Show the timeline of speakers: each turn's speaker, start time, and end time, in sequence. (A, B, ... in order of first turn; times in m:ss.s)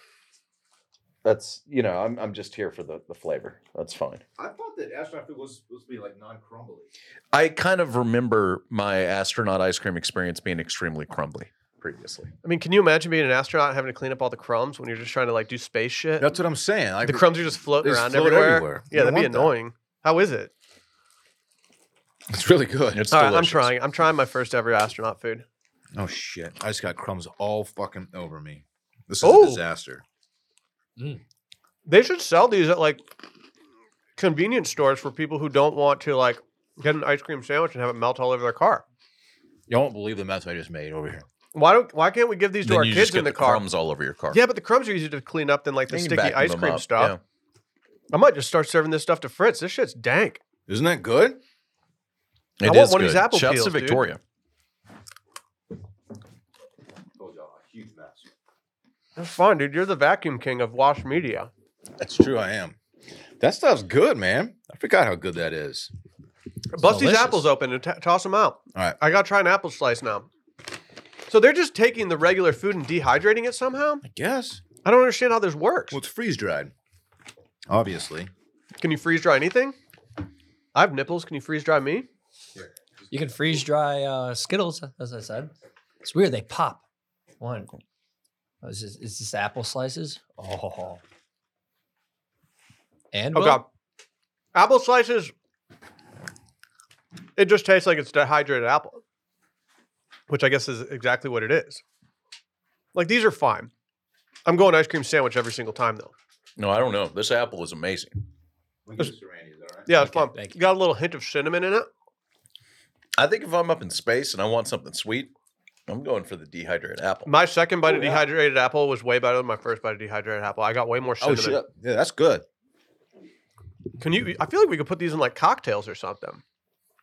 0:01.2-0:04.2 A
0:04.4-0:06.9 B
0:07.3-0:12.3 A
0:12.4-0:16.3 C
0:16.2-0:19.5 B
0:17.0-0:20.5 C
0:22.3-0:23.1 B
0:22.9-0:23.7 A
0:23.1-0:25.4 C
0:25.9-0:30.0 B
0:29.2-0:29.6 C
0:31.8-0:33.0 C
0:34.2-0:38.8 C
0:39.7-0:41.2 B
0:41.5-0:43.6 C
0:42.6-0:44.4 A
0:44.3-0:47.1 C
0:45.9-0:47.2 A
0:48.1-0:50.4 C
0:50.7-0:51.4 B
0:52.6-0:54.2 A
0:52.6-0:54.0 C
0:57.2-0:58.2 B
0:59.2-1:01.5 C
1:02.0-1:02.8 B
1:03.4-1:05.9 B
1:06.7-1:10.3 C
1:06.8-1:07.4 D
1:11.3-1:14.0 C
1:14.0-1:14.6 B
1:14.8-1:16.0 C
1:15.9-1:16.7 B
1:17.7-1:18.3 B
1:18.8-1:19.7 C
1:20.7-1:22.1 C
1:23.1-1:25.5 D
1:26.0-1:26.8 D
1:27.4-1:27.7 D
1:28.6-1:31.0 D
1:33.1-1:33.6 D
1:33.3-1:33.6 C
1:34.5-1:35.3 C
1:37.4-1:39.0 C
1:40.3-1:41.8 C
1:42.9-1:43.7 C
1:44.4-1:46.1 C
1:46.6-1:48.2 A
1:48.8-1:50.0 B
1:49.9-1:51.9 C
1:50.0-1:50.6 D
1:53.2-1:55.3 A
1:55.9-1:57.3 A
1:57.2-2:01.6 C
1:57.9-1:58.2 B
2:01.2-2:02.4 B
2:04.0-2:06.4 C